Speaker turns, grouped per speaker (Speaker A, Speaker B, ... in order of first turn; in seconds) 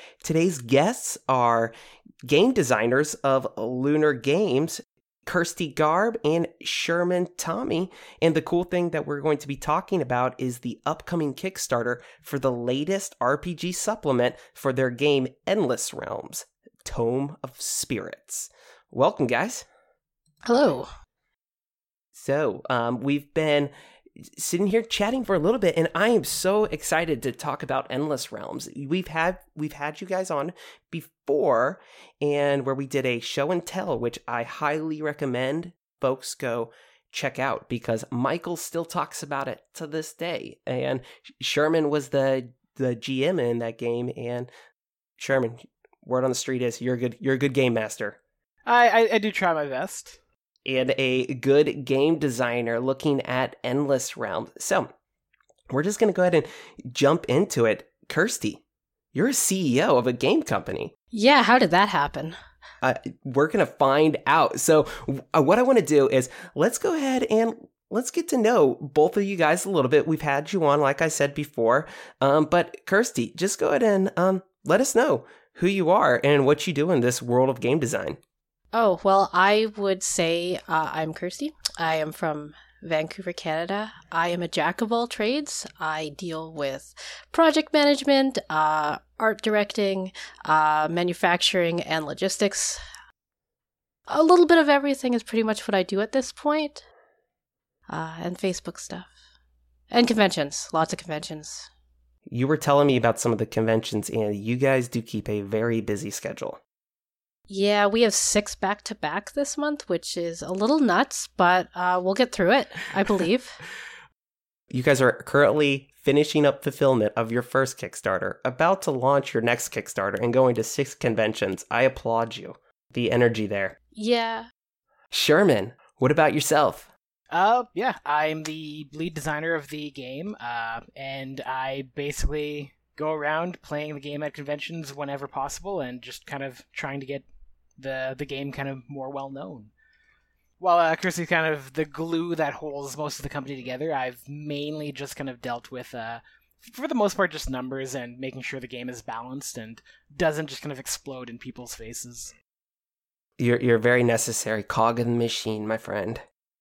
Speaker A: 0.2-1.7, 2.2-19.7, 22.1-44.5, 45.2-48.2, 50.6-54.9, 55.7-58.6, 59.1-60.9, 62.8-78.2, 102.3-106.6, 114.7-123.8, 125.1-126.9, 153.4-156.2
Speaker B: 20.5-20.9, 61.1-62.4, 78.7-92.8, 94.1-96.8, 97.9-99.1, 99.9-101.7, 107.5-113.6, 123.9-124.5
Speaker C: 48.7-50.2, 127.3-137.3, 137.8-139.7, 140.6-152.3